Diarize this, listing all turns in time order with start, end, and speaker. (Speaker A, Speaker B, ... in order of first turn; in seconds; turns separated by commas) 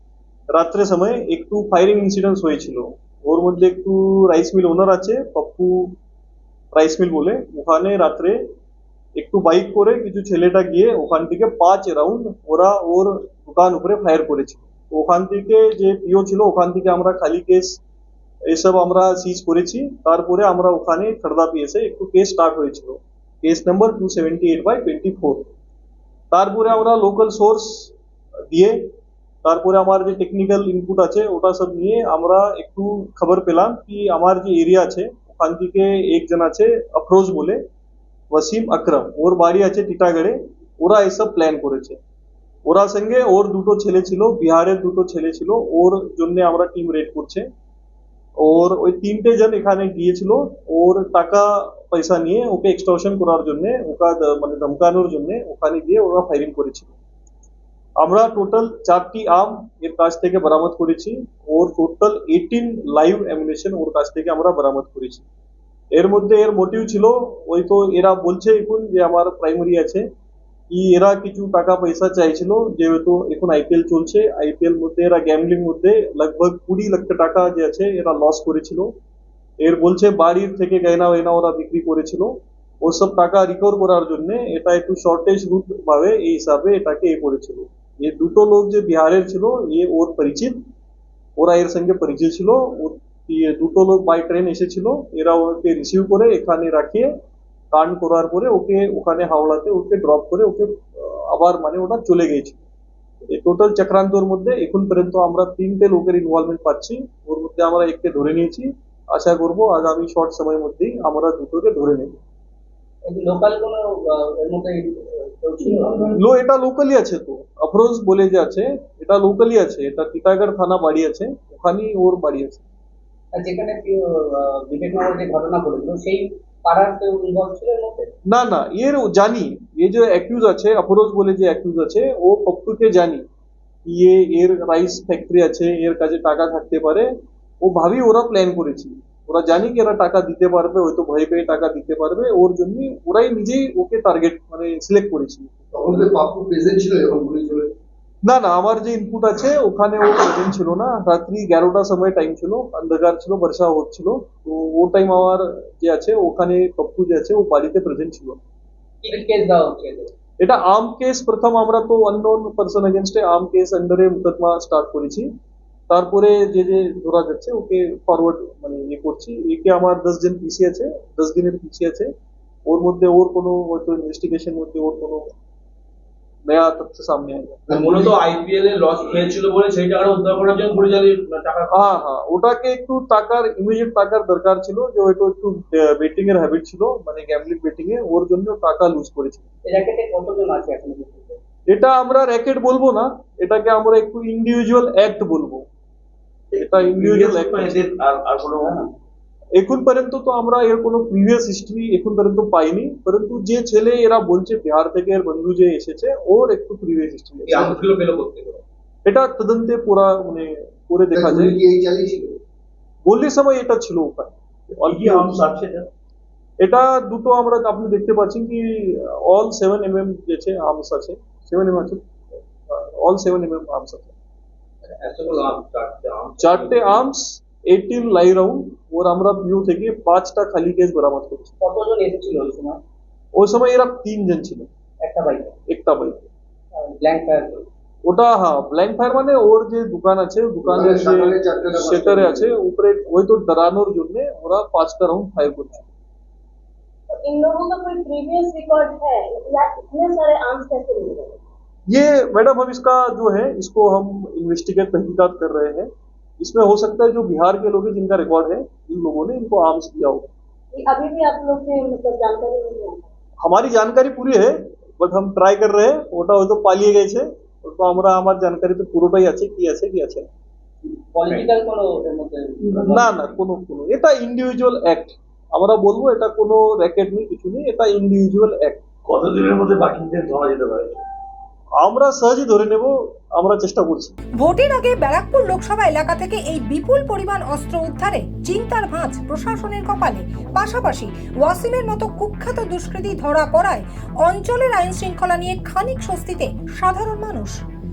Speaker A: 0.5-5.9, Speaker A: 6.7-8.4, Speaker A: 9.2-17.8, Speaker A: 18.5-25.5, Speaker A: 26.3-27.9, Speaker A: 28.5-28.8, Speaker A: 29.4-37.6, Speaker A: 38.3-42.0, Speaker A: 42.7-47.5, Speaker A: 48.4-56.9, Speaker A: 58.0-65.2, Speaker A: 65.9-70.0, Speaker A: 70.7-78.9, Speaker A: 79.6-90.6, Speaker A: 91.4-97.1, Speaker A: 97.7-102.6, Speaker A: 103.3-112.1, Speaker B: 113.0-116.1, Speaker A: 116.2-122.6, Speaker B: 123.3-128.1, Speaker A: 128.3-133.2, Speaker A: 133.8-137.1, Speaker A: 137.6-145.5, Speaker C: 145.7-147.7, Speaker A: 148.2-158.4, Speaker B: 159.0-160.1, Speaker A: 160.4-165.3, Speaker A: 165.9-172.1, Speaker A: 172.7-175.2, Speaker A: 176.5-177.8, Speaker D: 177.7-182.0, Speaker A: 181.7-189.4, Speaker B: 189.7-191.4, Speaker A: 191.7-195.7, Speaker D: 196.5-198.9, Speaker A: 196.6-197.9, Speaker A: 199.6-207.7, Speaker D: 207.5-208.6, Speaker A: 209.1-211.6, Speaker C: 211.1-212.4, Speaker A: 213.0-215.4, Speaker D: 214.7-215.9, Speaker A: 216.6-222.1, Speaker A: 222.7-224.1, Speaker B: 225.1-225.5, Speaker D: 225.1-227.0, Speaker A: 226.4-231.5, Speaker B: 231.6-232.8, Speaker A: 233.3-234.7, Speaker B: 235.0-235.5, Speaker A: 235.7-236.2, Speaker B: 236.8-237.7, Speaker A: 238.1-245.9, Speaker C: 240.6-242.5, Speaker E: 247.1-251.4, Speaker A: 251.9-255.9, Speaker A: 256.4-260.3, Speaker E: 260.7-263.1, Speaker A: 263.4-270.3, Speaker B: 271.1-273.2, Speaker A: 272.8-278.8, Speaker D: 279.1-281.0, Speaker A: 281.8-284.1, Speaker F: 284.4-297.6